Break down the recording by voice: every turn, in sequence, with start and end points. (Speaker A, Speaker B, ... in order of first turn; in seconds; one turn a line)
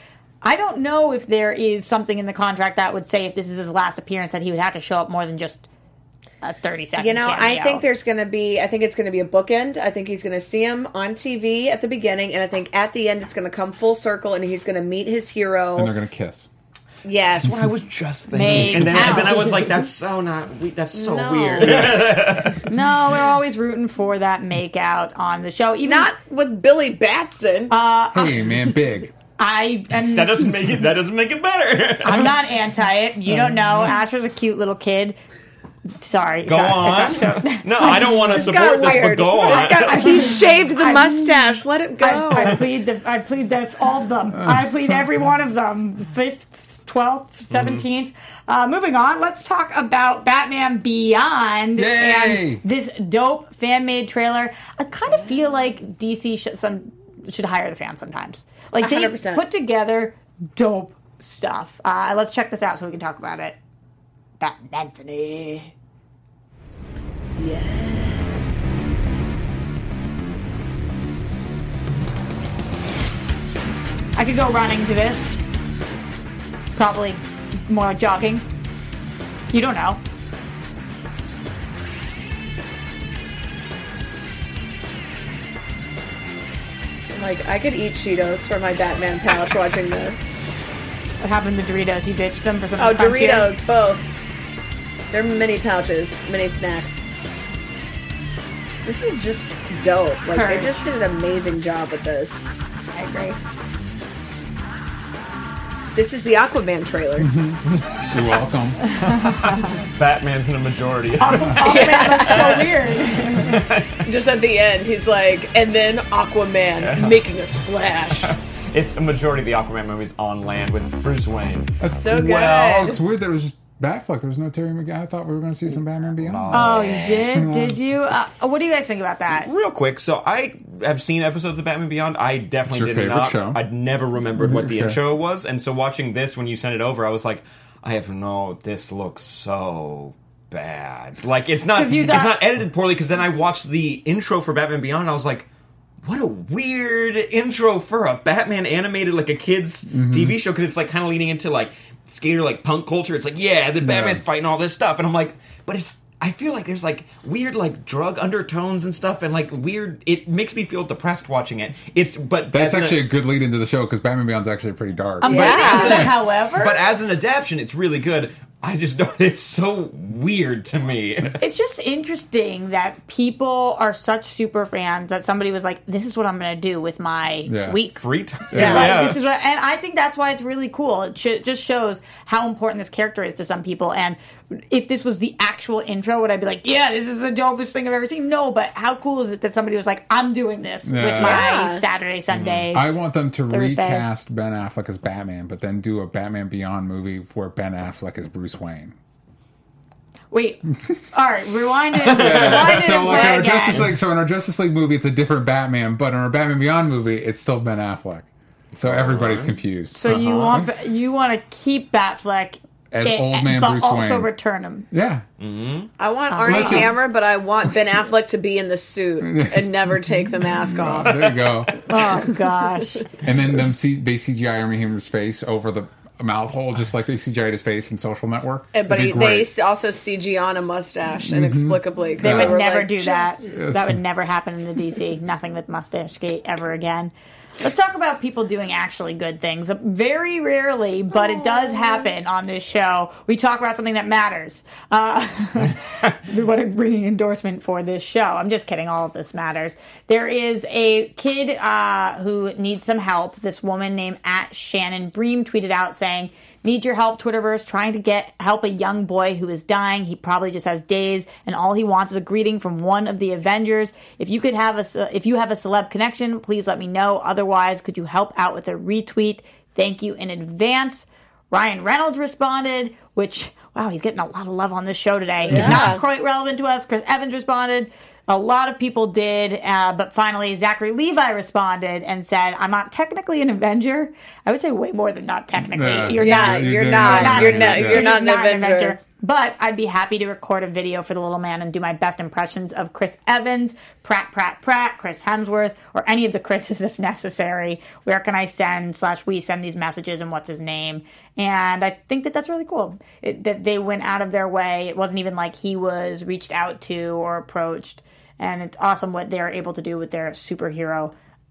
Speaker A: 0.4-5.7
Speaker A: 6.4-7.8
Speaker B: 7.0-15.9
Speaker C: 15.7-16.5
Speaker B: 17.0-17.7
Speaker D: 17.4-22.6
Speaker A: 18.3-19.7
Speaker B: 18.9-19.4
Speaker B: 20.9-22.1
Speaker A: 22.7-26.1
Speaker B: 25.8-27.7
Speaker A: 27.7-28.6
Speaker C: 28.1-29.1
Speaker A: 29.4-30.5
Speaker D: 30.1-32.5
Speaker A: 32.0-35.2
Speaker D: 33.5-33.8
Speaker A: 36.0-38.5
Speaker D: 36.5-40.3
Speaker B: 37.8-42.6
Speaker A: 39.4-63.6
Speaker C: 44.3-45.0
Speaker D: 47.5-47.8
Speaker C: 51.8-52.6
Speaker B: 58.8-59.4
Speaker A: 64.4-65.7
Speaker B: 67.4-68.5
Speaker A: 74.2-75.4
Speaker A: 76.7-78.4
Speaker A: 79.5-80.0
Speaker B: 87.1-90.2
Speaker A: 91.2-93.5
Speaker B: 92.8-94.0
Speaker B: 95.1-97.0
Speaker B: 98.8-102.4
Speaker A: 100.3-100.7
Speaker A: 102.9-103.4
Speaker B: 105.9-107.3
Speaker C: 107.2-108.9
Speaker D: 107.7-108.0
Speaker D: 109.0-112.7
Speaker A: 111.2-113.6
Speaker B: 111.6-112.7
Speaker D: 113.3-114.0
Speaker B: 114.0-118.3
Speaker D: 116.8-117.2
Speaker D: 118.1-122.6
Speaker C: 121.8-127.8
Speaker B: 122.0-123.0
Speaker D: 126.2-127.3
Speaker A: 126.5-129.5
Speaker D: 129.4-145.5
Speaker C: 132.7-133.6
Speaker C: 134.3-135.0
Speaker A: 141.7-142.4
Speaker D: 146.0-163.1
Speaker C: 149.9-150.4
Speaker C: 153.8-154.2
Speaker C: 162.5-166.1
Speaker A: 165.2-166.8
Speaker B: 165.2-166.1
Speaker D: 165.4-171.4
Speaker A: 171.4-178.0
Speaker C: 177.5-177.8
Speaker D: 178.0-179.2
Speaker C: 178.5-178.9
Speaker A: 178.5-192.9
Speaker B: 178.5-178.9
Speaker C: 190.8-191.5
Speaker B: 191.2-191.8
Speaker D: 192.3-192.6
Speaker C: 192.7-198.9
Speaker A: 193.5-194.1
Speaker A: 200.3-203.8
Speaker D: 202.0-203.1
Speaker C: 202.1-208.3
Speaker B: 203.1-203.4
Speaker D: 208.7-209.6
Speaker C: 208.8-210.7
Speaker A: 209.9-214.9
Speaker D: 210.1-210.6
Speaker C: 212.9-214.3
Speaker C: 214.9-215.2
Speaker D: 215.4-215.9
Speaker B: 216.0-221.5
Speaker A: 216.3-216.9
Speaker C: 216.4-217.0
Speaker C: 219.2-221.7
Speaker A: 221.8-223.1
Speaker C: 223.2-229.5
Speaker B: 228.7-233.4
Speaker C: 231.3-232.6
Speaker A: 232.2-311.1
Speaker C: 233.4-234.0
Speaker B: 241.7-242.0
Speaker B: 275.4-276.0
Speaker C: 275.5-276.0
Speaker C: 285.6-288.2
Speaker B: 286.1-289.0